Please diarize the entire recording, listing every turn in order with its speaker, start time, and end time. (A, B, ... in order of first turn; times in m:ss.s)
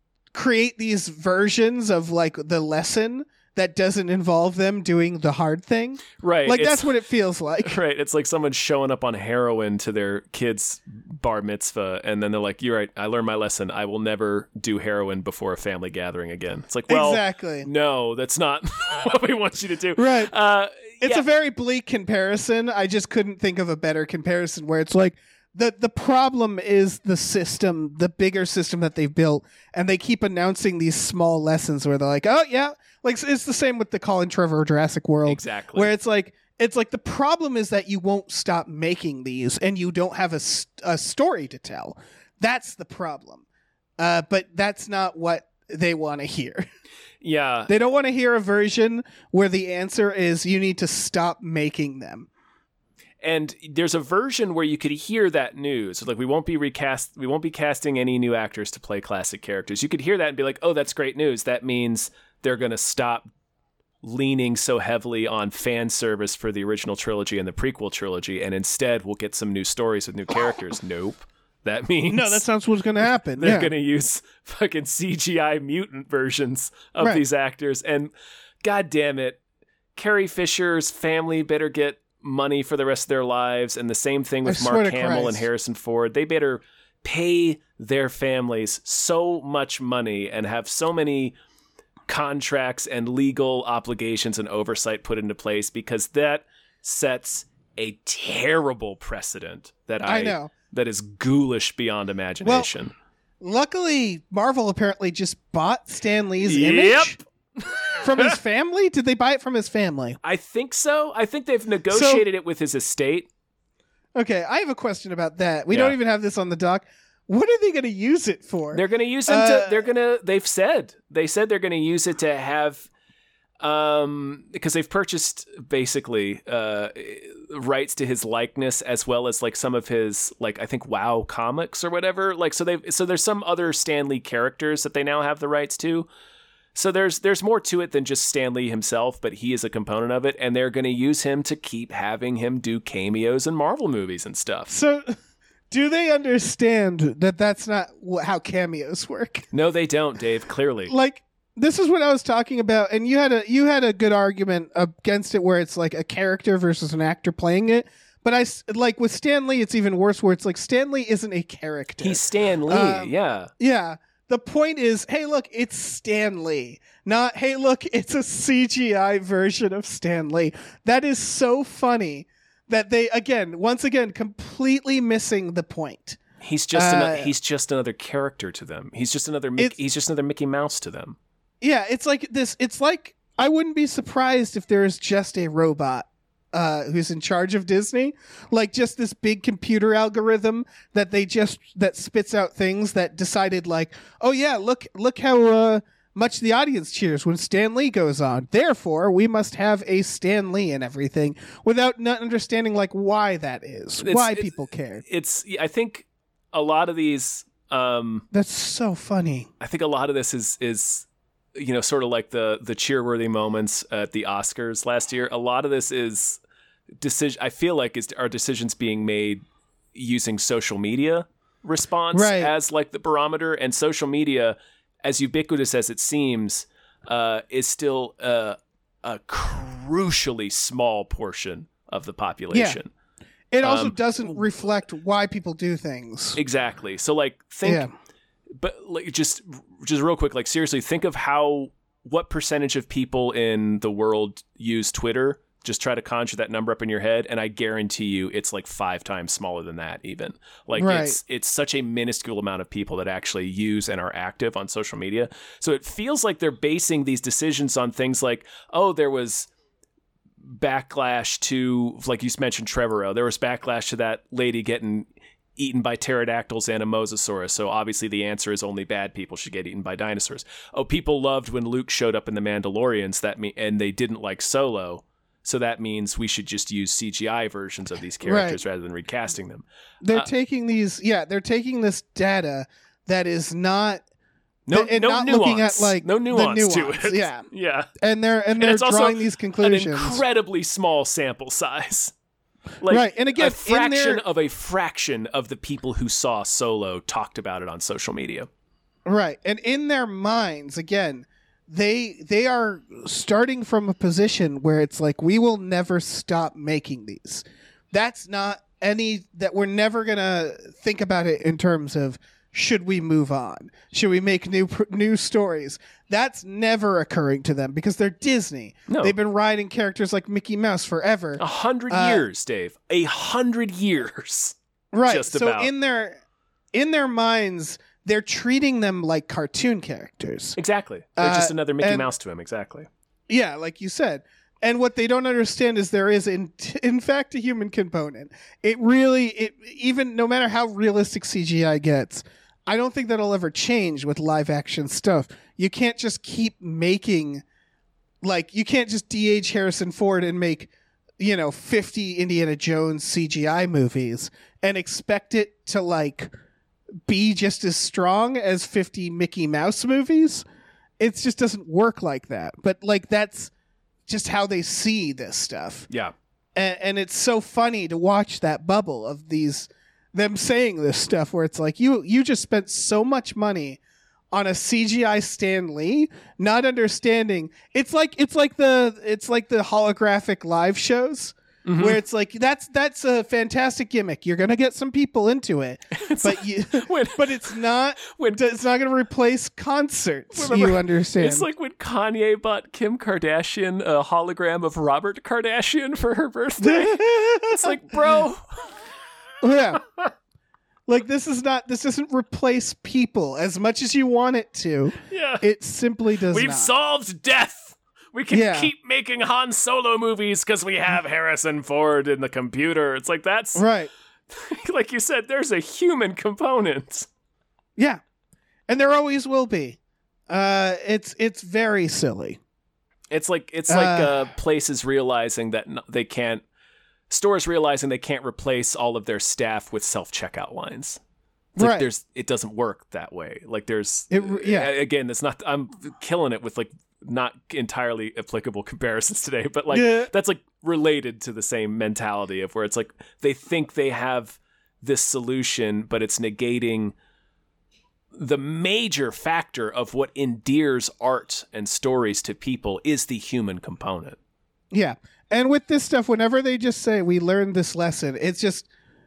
0:00.3-0:07.8 A
0:06.2-0:06.9 B
0:07.6-0:21.2 B
0:16.9-0:17.7 A
0:20.0-0:20.3 A
0:21.0-0:43.4 A
0:35.2-0:35.9 B
0:44.0-0:46.6 A
0:47.2-0:47.7 B
0:47.7-0:52.3 A
0:53.2-1:03.3 B
1:04.0-1:12.4 B
1:12.1-1:13.7 A
1:13.4-1:18.1 B
1:18.6-1:19.4 B
1:20.0-1:31.4 B
1:24.4-1:25.4 A
1:32.1-1:42.9 B
1:40.0-1:40.5 A
1:42.4-1:42.7 A
1:43.4-1:47.2 A
1:46.4-1:48.3 B
1:48.0-1:50.2 A
1:50.2-1:53.3 B
1:51.9-1:52.2 A
1:54.1-1:59.9 A
1:55.7-1:56.0 B
1:58.7-2:02.9 B
2:03.6-2:16.1 B
2:16.7-2:24.7 B
2:24.7-2:25.2 A
2:25.7-2:29.5 A
2:29.5-2:30.9 B
2:30.9-2:56.2 A
2:42.0-2:43.5 B
2:56.4-3:01.2 B
2:56.7-2:57.3 A
3:01.6-3:25.0 A
3:24.0-3:28.2 B
3:28.3-3:29.5 A
3:29.6-3:36.4 B
3:37.0-3:39.4 B
3:39.9-3:52.9 B
3:42.1-3:42.5 A
3:52.5-3:52.8 A
3:53.5-3:56.4 A
3:53.6-3:54.4 B
3:56.4-3:57.9 B
3:57.6-3:57.9 A
3:58.6-4:19.5 B
4:10.8-4:11.2 A
4:20.4-4:40.3 B
4:38.2-4:38.6 A
4:40.0-4:44.0 A
4:44.7-4:47.9 B
4:44.7-4:47.4 A
4:48.0-4:50.2 A
4:48.6-4:52.1 B
4:52.8-4:58.5 B
4:52.9-4:54.2 A
4:59.0-5:22.2 A
5:18.9-5:19.1 B
5:21.4-5:24.6 B
5:24.9-5:26.2 A
5:25.1-5:25.7 B
5:26.7-5:30.6 A
5:30.6-5:32.9 B
5:31.2-5:32.1 A
5:33.3-5:47.4 A
5:48.2-5:56.3 A
5:57.0-6:00.4 A
6:01.0-6:03.5 A
6:04.1-6:05.9 A
6:06.5-6:13.8 A
6:14.3-6:31.5 A
6:21.6-6:22.0 B
6:25.9-6:28.4 B
6:30.3-6:38.7 B
6:36.6-6:38.2 A
6:39.4-6:39.8 A
6:39.8-6:40.1 B
6:40.9-6:46.7 A
6:45.1-6:45.4 B
6:46.3-6:53.6 B
6:48.3-6:48.7 A
6:53.5-6:53.9 A
6:54.3-6:57.1 B
6:58.7-6:59.8 A
7:00.3-7:02.4 A
7:03.1-7:06.4 B
7:03.7-7:04.3 A
7:07.1-7:11.0 B
7:11.6-7:11.9 A
7:11.6-7:26.9 B
7:14.1-7:14.7 A
7:19.7-7:20.1 A
7:28.1-7:34.2 B
7:34.7-7:38.7 A